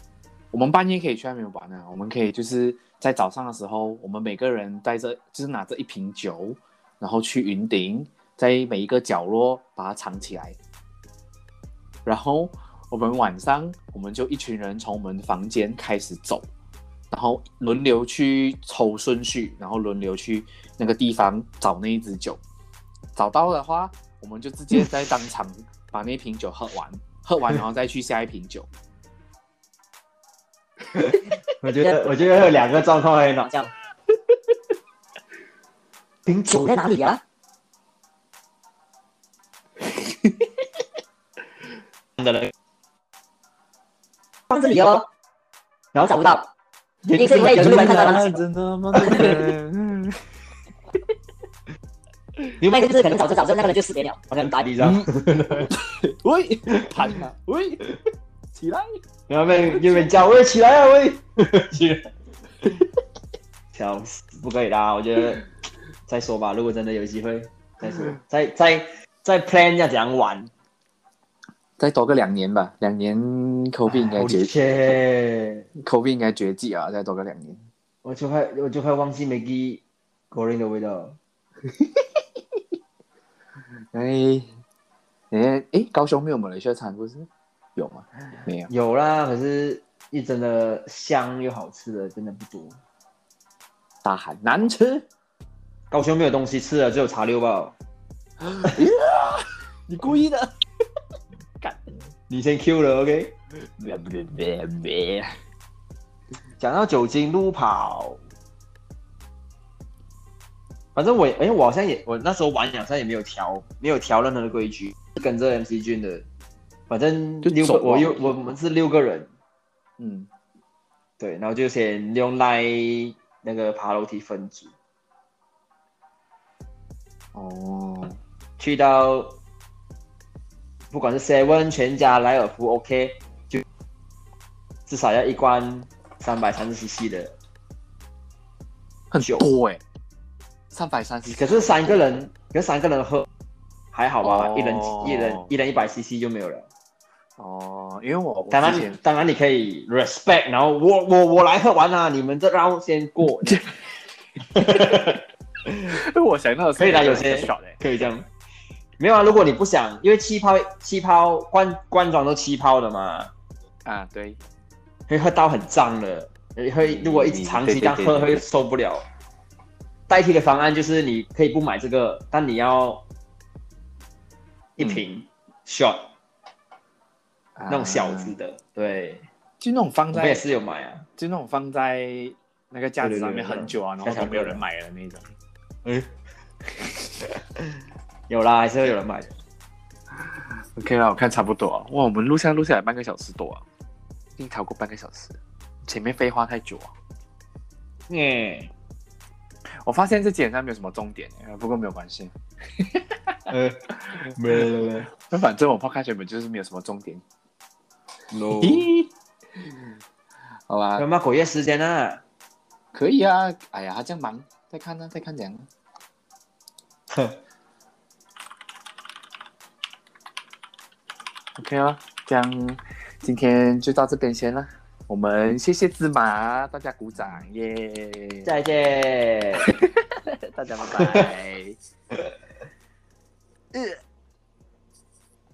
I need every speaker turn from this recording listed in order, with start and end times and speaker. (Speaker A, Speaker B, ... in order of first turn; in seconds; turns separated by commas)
Speaker A: 0.5-10.6, Speaker A: 12.1-16.4, Speaker A: 17.1-22.4, Speaker A: 23.1-28.7, Speaker B: 31.6-33.5, Speaker B: 36.2-36.6, Speaker C: 36.5-37.2, Speaker A: 39.9-40.5, Speaker B: 42.2-42.5, Speaker C: 44.5-45.1, Speaker C: 45.9-46.5, Speaker B: 47.0-47.8, Speaker C: 47.1-48.4, Speaker A: 47.5-50.2, Speaker C: 49.0-49.4, Speaker C: 52.6-54.6, Speaker B: 54.4-55.7, Speaker A: 54.8-57.9, Speaker A: 58.5-59.0, Speaker B: 59.3-62.1, Speaker A: 59.7-60.1, Speaker B: 63.7-65.5, Speaker B: 66.1-70.5, Speaker A: 71.8-74.5, Speaker B: 73.9-75.7, Speaker A: 75.8-77.7, Speaker B: 78.0-81.2, Speaker A: 83.9-84.5, Speaker A: 85.3-88.7, Speaker B: 88.7-92.8, Speaker A: 94.0-95.0, Speaker B: 95.9-97.8, Speaker A: 98.4-100.5, Speaker A: 101.6-102.0, Speaker B: 102.3-103.3, Speaker A: 103.6-105.3, Speaker B: 106.6-108.2, Speaker B: 110.9-116.2, Speaker B: 116.9-119.3, Speaker A: 117.4-118.5, Speaker A: 120.0-120.3, Speaker B: 121.2-124.7, Speaker A: 127.3-128.2, Speaker B: 128.6-129.4, Speaker B: 130.9-133.6, Speaker B: 134.9-137.3, Speaker A: 139.1-139.8, Speaker B: 139.2-139.4, Speaker A: 140.7-142.0, Speaker B: 141.3-143.3, Speaker B: 143.9-146.7, Speaker A: 144.2-145.5, Speaker A: 147.4-149.0, Speaker B: 148.5-153.7, Speaker A: 154.5-155.0, Speaker B: 154.5-155.2, Speaker A: 155.9-157.8, Speaker B: 156.8-158.3, Speaker B: 159.0-163.3, Speaker A: 163.8-164.4, Speaker B: 165.1-169.0, Speaker A: 166.8-168.4, Speaker B: 170.1-173.0, Speaker B: 174.8-176.1, Speaker A: 177.6-178.3, Speaker B: 177.7-179.2, Speaker A: 179.6-180.4, Speaker B: 180.1-181.1, Speaker A: 181.2-185.2, Speaker B: 183.0-184.6, Speaker B: 188.3-189.3, Speaker A: 190.2-193.6, Speaker A: 194.4-196.9, Speaker B: 198.1-198.7, Speaker A: 199.8-203.4, Speaker B: 203.5-205.1, Speaker A: 205.1-207.2, Speaker B: 208.3-208.9, Speaker A: 208.6-209.1, Speaker A: 210.7-211.1, Speaker B: 210.9-212.2, Speaker A: 212.9-215.7, Speaker B: 217.1-217.4, Speaker A: 221.6-228.5, Speaker B: 228.4-229.7, Speaker A: 229.7-231.8, Speaker B: 231.0-231.3, Speaker A: 233.7-234.0